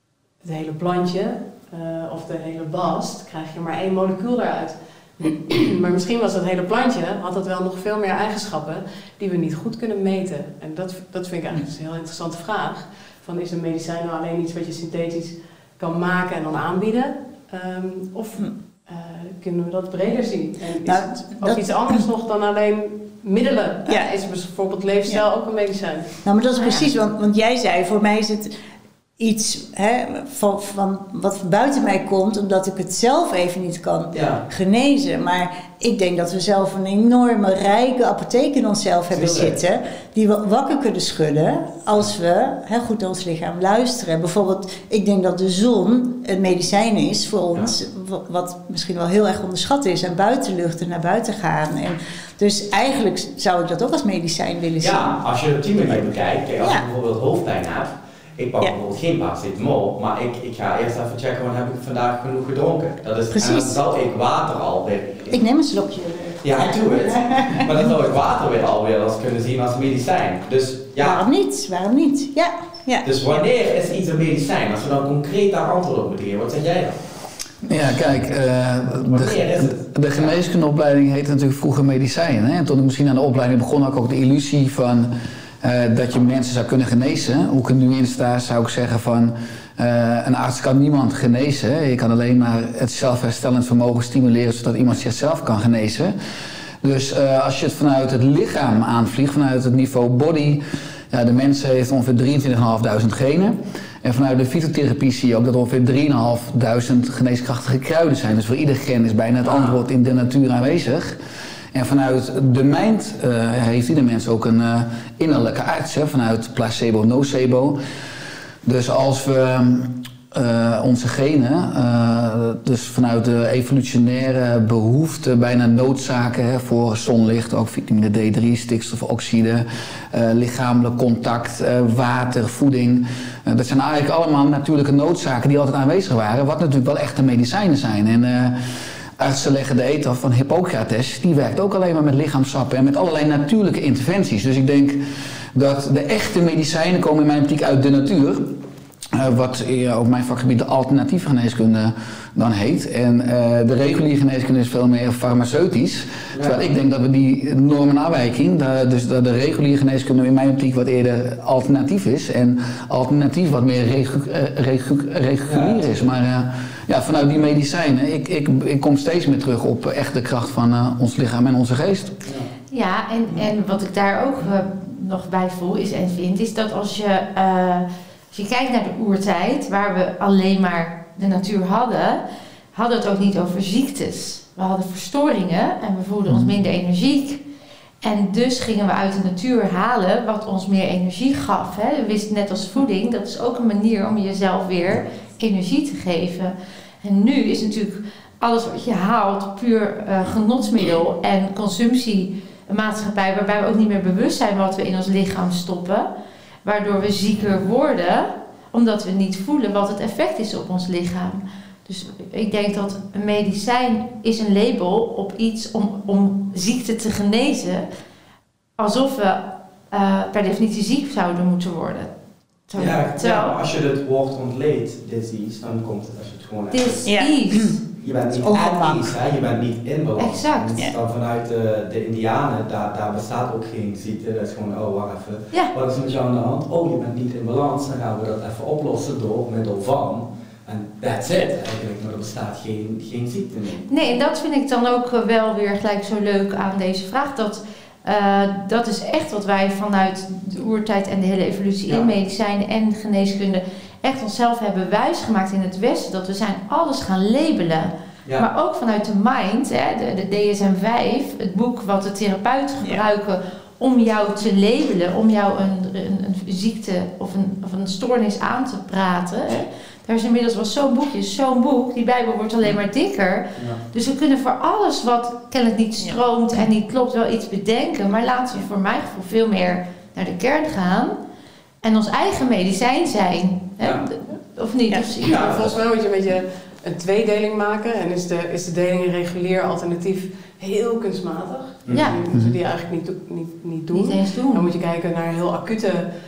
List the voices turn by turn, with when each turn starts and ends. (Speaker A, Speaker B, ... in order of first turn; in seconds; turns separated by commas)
Speaker A: 0.4-26.1, Speaker B: 20.8-21.6, Speaker B: 23.9-24.1, Speaker B: 26.2-28.5, Speaker B: 29.2-55.1, Speaker C: 34.1-34.4, Speaker C: 39.1-39.6, Speaker C: 54.8-65.4, Speaker B: 56.6-56.9, Speaker B: 63.3-63.8, Speaker B: 65.3-67.7, Speaker C: 66.4-71.2, Speaker B: 71.0-73.0, Speaker C: 73.0-77.0, Speaker D: 77.6-96.1, Speaker C: 79.0-80.4, Speaker D: 96.8-111.2, Speaker C: 109.4-109.8, Speaker D: 111.7-117.8, Speaker D: 118.6-138.6, Speaker D: 139.2-145.0, Speaker D: 145.5-148.6, Speaker D: 149.1-172.2, Speaker C: 156.3-156.7, Speaker C: 165.4-166.1, Speaker C: 172.2-172.5, Speaker E: 172.7-182.2, Speaker E: 182.7-187.4, Speaker D: 186.3-186.5, Speaker E: 188.0-206.1, Speaker E: 206.6-217.8, Speaker E: 218.8-222.1, Speaker E: 222.7-223.6, Speaker C: 222.7-227.0, Speaker E: 226.7-227.8, Speaker B: 227.0-227.8, Speaker C: 227.9-243.9, Speaker B: 228.3-229.1, Speaker E: 230.2-230.8, Speaker E: 243.9-281.1, Speaker E: 281.8-285.6, Speaker C: 283.8-284.1, Speaker B: 284.9-285.2, Speaker C: 285.2-285.8, Speaker A: 285.2-296.1, Speaker C: 291.9-292.1, Speaker E: 291.9-292.2, Speaker D: 292.3-292.6, Speaker E: 293.9-294.7